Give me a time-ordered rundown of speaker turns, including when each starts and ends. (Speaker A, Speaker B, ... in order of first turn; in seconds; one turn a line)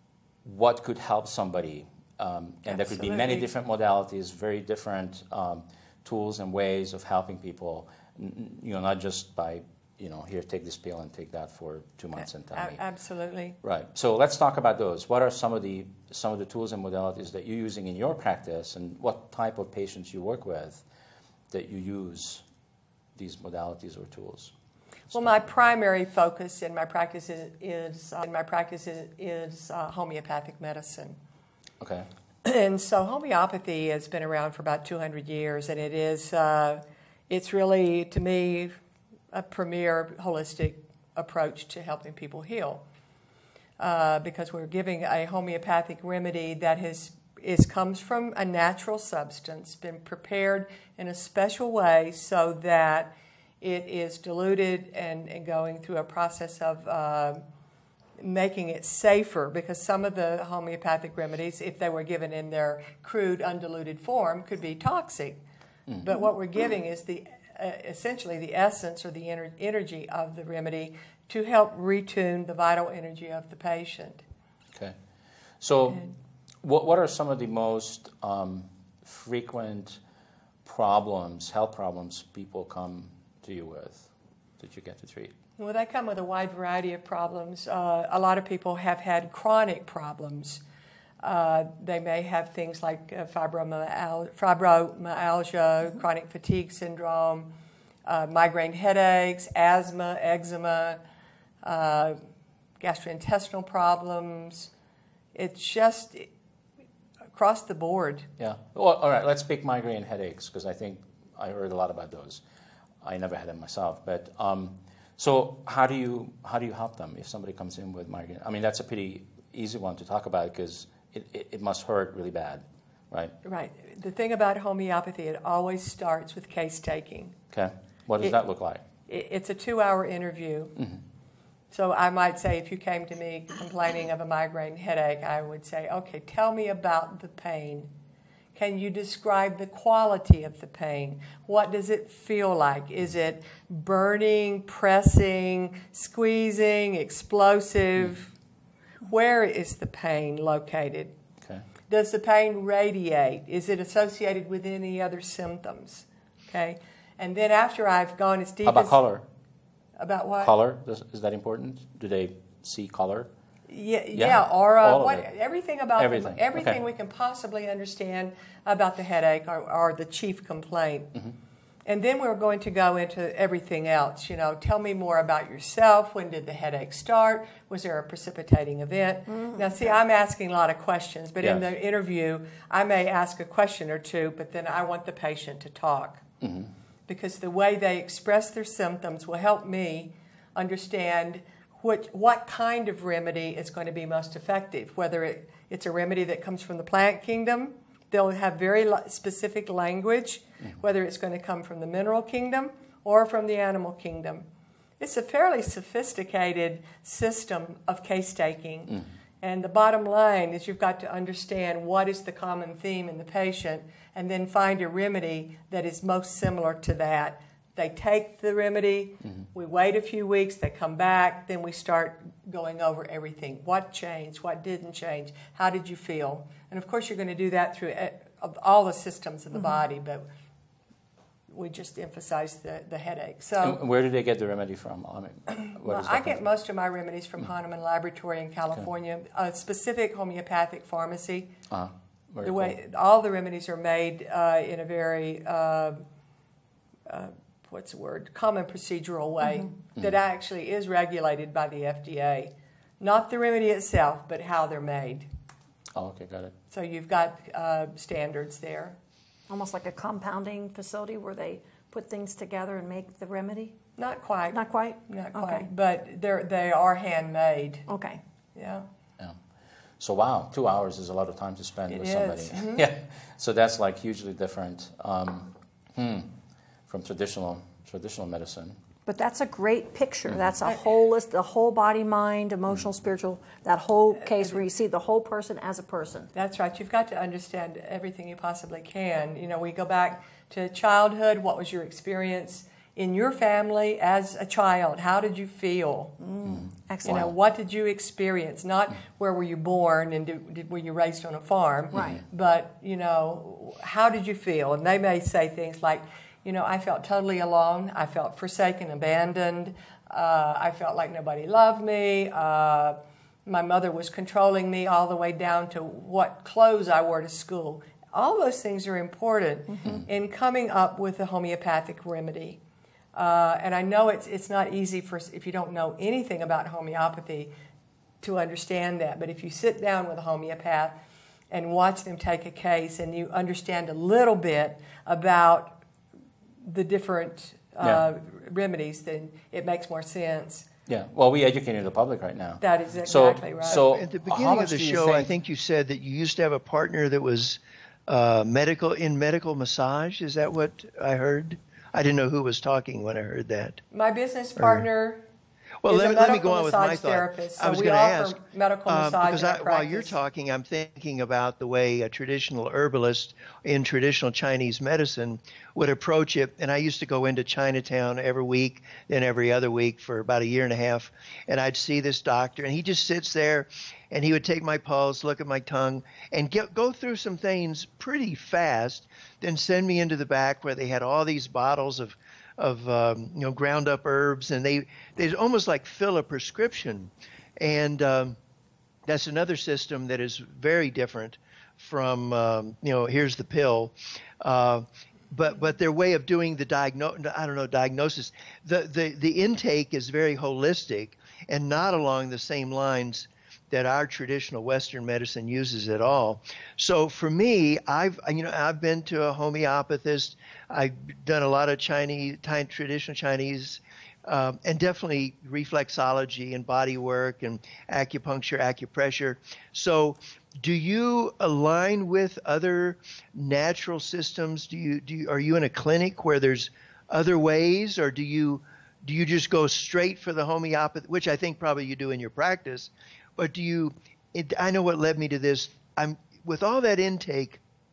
Speaker A: 0.4-12.8
Speaker B: 2.7-3.5
Speaker B: 12.2-13.6
Speaker A: 13.6-20.8
Speaker A: 21.5-22.4
Speaker A: 23.1-24.5
Speaker A: 25.1-25.4
Speaker B: 25.1-31.2
Speaker A: 31.8-32.1
Speaker B: 32.4-38.8
Speaker B: 39.3-42.8
Speaker B: 43.8-57.4
Speaker B: 58.2-65.4
Speaker B: 66.0-74.2
Speaker A: 75.6-76.0
Speaker A: 76.6-80.0
Speaker A: 80.6-84.1
Speaker A: 84.6-85.3
Speaker B: 85.6-90.6
Speaker B: 91.2-97.5
Speaker B: 98.0-101.0
Speaker B: 101.6-102.2
Speaker B: 102.8-104.7
Speaker B: 105.3-106.3
Speaker B: 107.3-108.3
Speaker A: 108.4-112.4
Speaker A: 113.0-123.3
Speaker B: 123.4-127.4
Speaker A: 127.5-128.8
Speaker B: 129.1-130.8
Speaker B: 131.7-137.9
Speaker B: 138.5-148.3
Speaker B: 149.1-151.1
Speaker B: 151.9-159.0
Speaker A: 158.7-159.2
Speaker B: 160.0-160.5
Speaker A: 160.4-163.3
Speaker B: 163.7-171.1
Speaker A: 164.1-165.3
Speaker A: 166.0-166.8
Speaker B: 171.8-186.2
Speaker A: 186.4-186.7
Speaker B: 187.1-204.4
Speaker B: 205.0-230.2
Speaker B: 231.5-233.8
Speaker A: 233.6-236.4
Speaker B: 235.6-241.5
Speaker A: 241.7-242.7
Speaker B: 242.4-246.0
Speaker B: 247.1-255.3
Speaker A: 255.9-256.5
Speaker B: 256.7-259.0
Speaker C: 259.5-263.8
Speaker B: 264.0-267.9
Speaker C: 264.5-265.7
Speaker C: 267.9-268.2
Speaker B: 268.5-268.9
Speaker A: 270.0-276.3
Speaker B: 271.9-272.8
Speaker A: 276.9-278.8
Speaker C: 279.1-286.3
Speaker B: 286.3-296.2
Speaker C: 296.2-297.2
Speaker B: 297.0-322.6
Speaker C: 301.9-302.2
Speaker A: 301.9-302.2
Speaker B: 323.1-327.5
Speaker B: 328.2-331.0
Speaker B: 331.5-335.8
Speaker B: 336.6-340.7
Speaker A: 340.9-345.3
Speaker B: 342.6-343.9
Speaker D: 343.7-353.8
Speaker B: 353.9-355.2
Speaker D: 355.8-388.4
Speaker B: 355.9-360.1
Speaker D: 389.1-437.6